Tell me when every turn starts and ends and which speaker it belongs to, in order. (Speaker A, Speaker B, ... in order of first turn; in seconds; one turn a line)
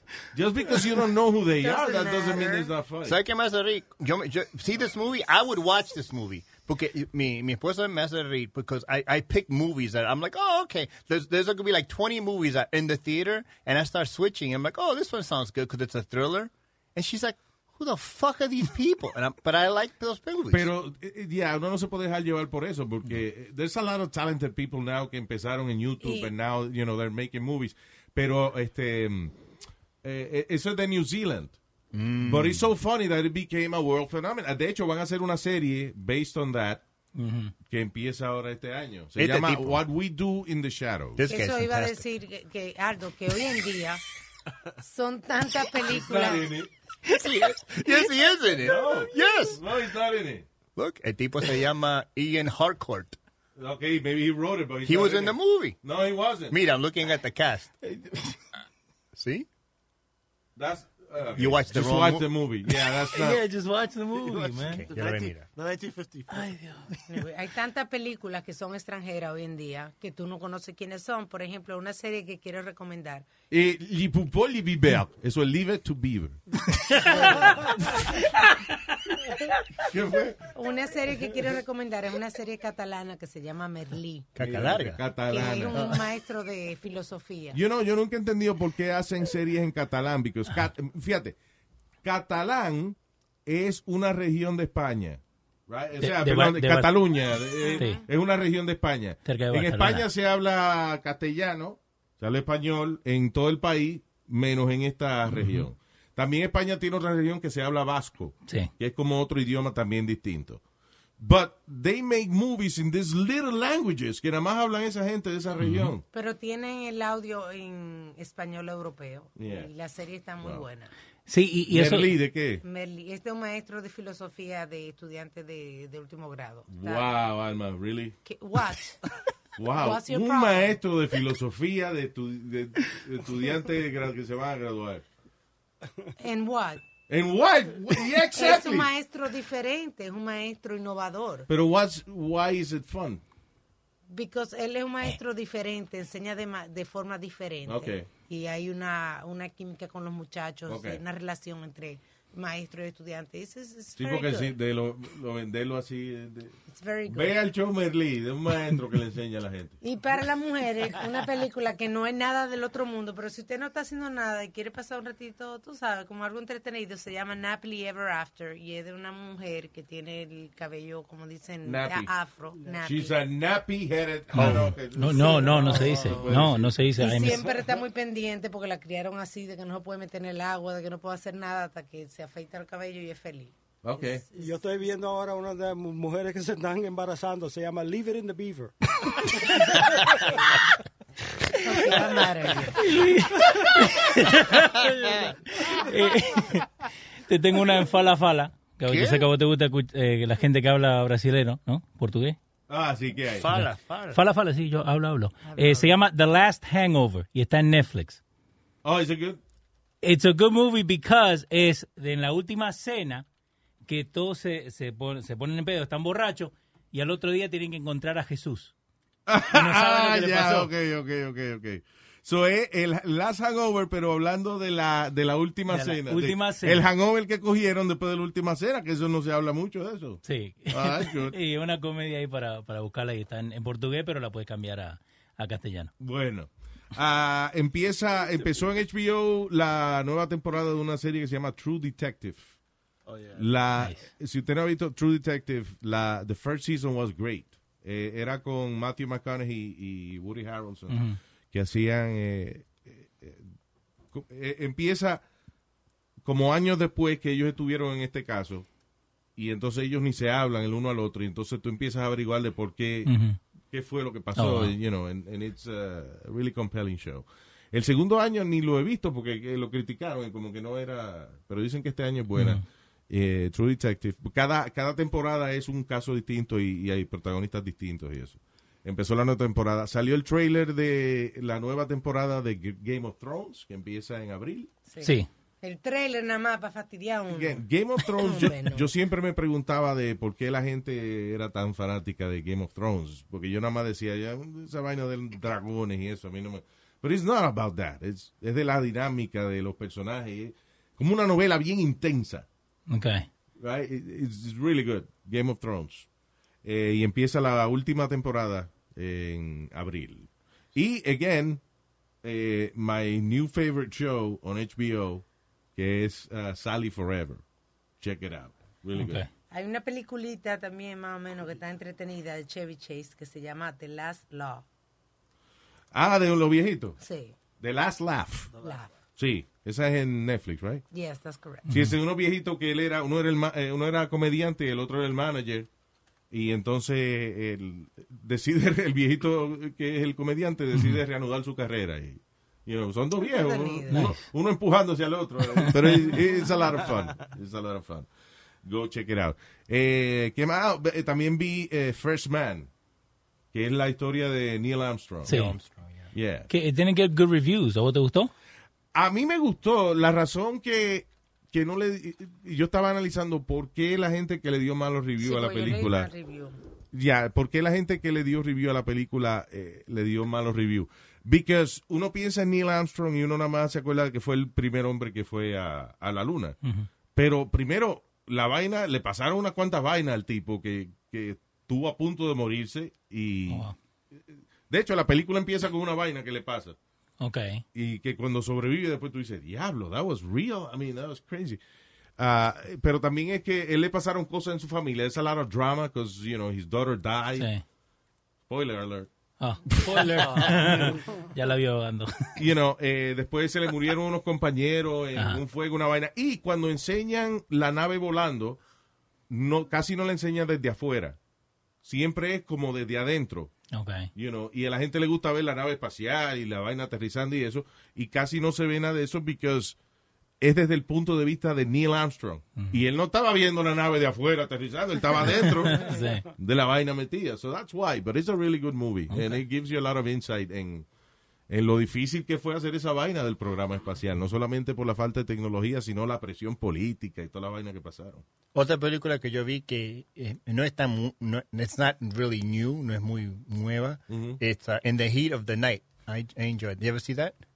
Speaker A: 0.3-3.2
Speaker B: 1.6-2.7
Speaker C: 3.0-20.7
Speaker A: 20.5-29.4
Speaker B: 26.0-26.3
Speaker A: 30.0-31.6
Speaker C: 31.9-32.6
Speaker A: 32.2-36.8
Speaker D: 37.2-37.5
Speaker A: 37.7-41.3
Speaker C: 39.2-39.8
Speaker C: 41.2-42.0
Speaker B: 41.3-44.0
Speaker B: 44.8-46.5
Speaker A: 45.9-46.7
Speaker C: 47.1-49.6
Speaker A: 48.6-50.5
Speaker C: 50.8-53.2
Speaker A: 53.6-56.6
Speaker C: 54.8-55.8
Speaker C: 56.5-57.7
Speaker D: 57.8-58.4
Speaker C: 59.1-59.5
Speaker A: 60.6-63.4
Speaker C: 61.4-62.3
Speaker D: 63.1-64.8
Speaker E: 64.4-66.6
Speaker C: 64.4-65.5
Speaker D: 66.3-67.1
Speaker B: 67.1-73.3
Speaker A: 73.5-77.2
Speaker B: 77.1-77.6
Speaker D: 78.2-78.6
Speaker A: 79.8-80.4
Speaker B: 80.5-84.3
Speaker C: 84.3-85.0
Speaker A: 84.4-86.0
Speaker B: 85.3-87.6
Speaker C: 85.7-86.0
Speaker A: 87.5-91.4
Speaker A: 92.0-110.6
Speaker D: 96.0-97.0
Speaker B: 97.6-98.0
Speaker D: 97.8-98.0
Speaker D: 99.3-100.1
Speaker D: 105.3-105.7
Speaker A: 111.2-116.0
Speaker D: 115.6-115.9
Speaker B: 116.1-120.9
Speaker A: 119.4-119.7
Speaker D: 121.3-122.1
Speaker A: 121.7-122.6
Speaker B: 122.6-127.1
Speaker A: 126.7-128.2
Speaker B: 128.2-129.0
Speaker A: 129.6-135.0
Speaker B: 129.8-130.8
Speaker B: 136.2-136.8
Speaker A: 137.1-138.9
Speaker B: 138.3-141.5
Speaker A: 141.5-143.2
Speaker B: 144.1-154.5
Speaker A: 147.7-148.1
Speaker A: 150.7-151.0
Speaker A: 153.9-159.8
Speaker B: 156.7-157.4
Speaker B: 159.8-173.2
Speaker A: 171.7-172.1
Speaker A: 172.8-176.8
Speaker D: 174.3-177.4
Speaker E: 175.3-176.5
Speaker B: 175.7-176.0
Speaker B: 177.0-184.6
Speaker A: 183.8-184.2
Speaker F: 184.3-190.2
Speaker B: 191.6-192.9
Speaker D: 192.8-202.4
Speaker C: 194.8-195.3
Speaker C: 198.9-199.3
Speaker A: 202.7-203.5
Speaker C: 203.4-204.2
Speaker D: 203.5-208.2
Speaker B: 205.4-205.9
Speaker A: 208.8-209.4
Speaker D: 210.0-213.2
Speaker D: 213.9-218.7
Speaker A: 219.3-231.4
Speaker D: 219.5-220.7
Speaker D: 225.7-226.9
Speaker D: 230.3-235.9
Speaker A: 236.0-242.5
Speaker E: 243.1-243.5
Speaker A: 243.4-253.5
Speaker D: 250.9-251.2
Speaker A: 254.1-255.2
Speaker A: 256.2-258.7
Speaker A: 259.4-263.1
Speaker D: 263.1-263.4
Speaker A: 263.7-284.7
Speaker D: 264.4-264.7
Speaker D: 272.4-272.6
Speaker B: 284.9-288.9
Speaker D: 285.0-285.3
Speaker A: 287.3-302.5
Speaker D: 302.9-303.3
Speaker A: 303.6-306.1
Speaker A: 306.6-311.6
Speaker A: 312.2-315.2
Speaker A: 315.8-317.4
Speaker A: 318.0-319.2
Speaker D: 319.0-319.3
Speaker B: 319.5-324.6
Speaker A: 325.9-327.0
Speaker B: 327.0-327.4
Speaker A: 327.6-328.5
Speaker E: 328.5-328.9
Speaker B: 328.6-328.9
Speaker A: 329.2-330.8
Speaker B: 330.9-331.6
Speaker D: 331.7-331.9
Speaker A: 331.7-335.7
Speaker A: 336.3-348.1
Speaker B: 343.2-344.1
Speaker D: 343.9-344.2
Speaker D: 345.6-346.2
Speaker A: 348.6-352.7
Speaker A: 353.5-355.4
Speaker C: 355.2-356.1
Speaker D: 355.3-355.6
Speaker A: 356.1-356.5
Speaker D: 356.5-358.3
Speaker A: 358.9-366.1
Speaker B: 365.2-366.6
Speaker A: 366.9-376.6
Speaker A: 377.2-386.8
Speaker D: 383.5-383.8
Speaker D: 387.2-387.6
Speaker A: 387.7-391.6
Speaker A: 392.2-397.5
Speaker D: 397.4-397.6
Speaker A: 398.5-399.1
Speaker D: 399.4-402.4
Speaker A: 399.9-400.7
Speaker E: 400.1-401.0
Speaker A: 402.4-408.6
Speaker D: 405.2-405.4
Speaker A: 409.3-411.2
Speaker A: 411.8-413.5
Speaker D: 413.7-414.1
Speaker A: 414.2-419.8
Speaker A: 420.4-430.9
Speaker D: 425.4-426.3
Speaker D: 429.1-429.4
Speaker A: 431.5-438.2
Speaker C: 438.5-447.4
Speaker A: 444.1-444.4